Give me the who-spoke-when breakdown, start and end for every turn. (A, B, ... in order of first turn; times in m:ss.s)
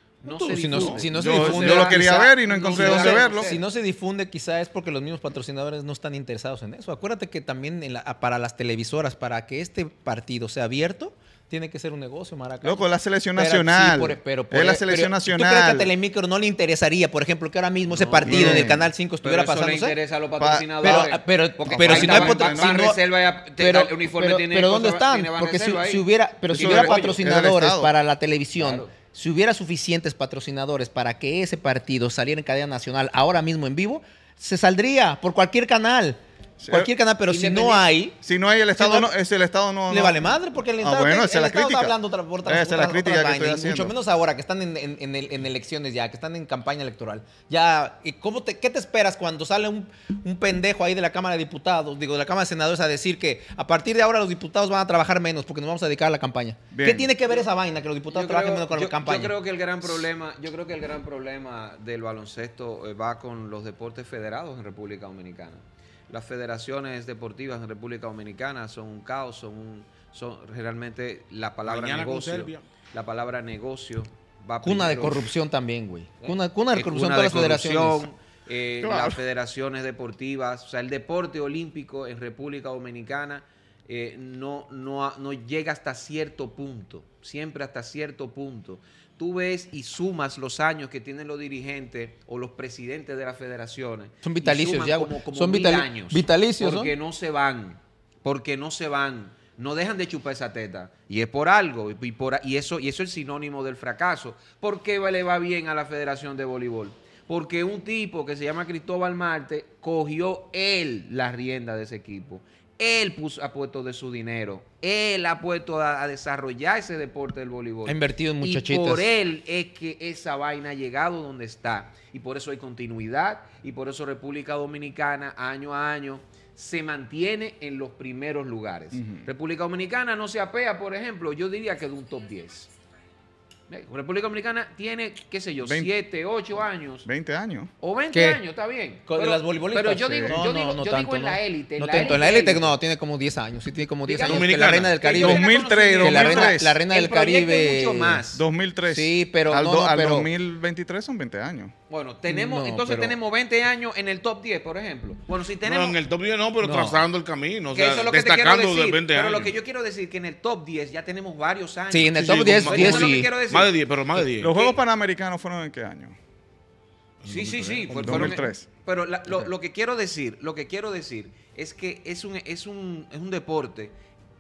0:00.2-0:03.6 A
0:00.2-0:01.8 B
0:00.5-0:20.0 C
0:01.1-0:03.6 D
0:12.6-0:15.9 D
0:17.9-0:27.2 A
0:18.2-0:18.9 D
0:20.4-0:21.0 D
0:20.8-0:23.0 C
0:21.6-0:22.8 D
0:23.6-0:38.1 C
0:26.5-0:27.9 D
0:28.6-0:28.9 A
0:36.6-0:36.9 D
0:37.3-0:37.9 A
0:38.2-0:43.9 D
0:38.8-0:39.1 C
0:39.9-0:59.3 C
0:56.7-0:57.1 D
0:58.1-1:15.3 A
1:11.6-1:12.6 B
1:14.6-1:18.1 C
1:16.2-2:12.7 A
1:18.8-1:19.2 D
1:34.2-1:36.9 C
1:57.8-1:59.1 C
2:08.9-2:09.3 D
2:13.7-2:17.1 A
2:15.6-2:15.9 D
2:17.0-2:17.7 D
2:17.8-2:22.8 A
2:18.1-2:18.4 C
2:19.1-2:28.2 C
2:24.0-2:28.4 A
2:24.2-2:25.0 B
2:25.2-2:26.8 D
2:28.3-2:31.7 D
2:28.9-2:30.3 C
2:31.9-2:36.0 A
2:32.3-2:33.1 C
2:35.6-2:39.5 B
2:36.6-2:37.0 C
2:37.7-2:44.8 A
2:41.9-2:43.3 C
2:42.1-2:44.5 B
2:44.4-2:46.2 D
2:47.2-2:48.4 B
2:47.3-2:53.9 A
2:47.9-2:48.7 D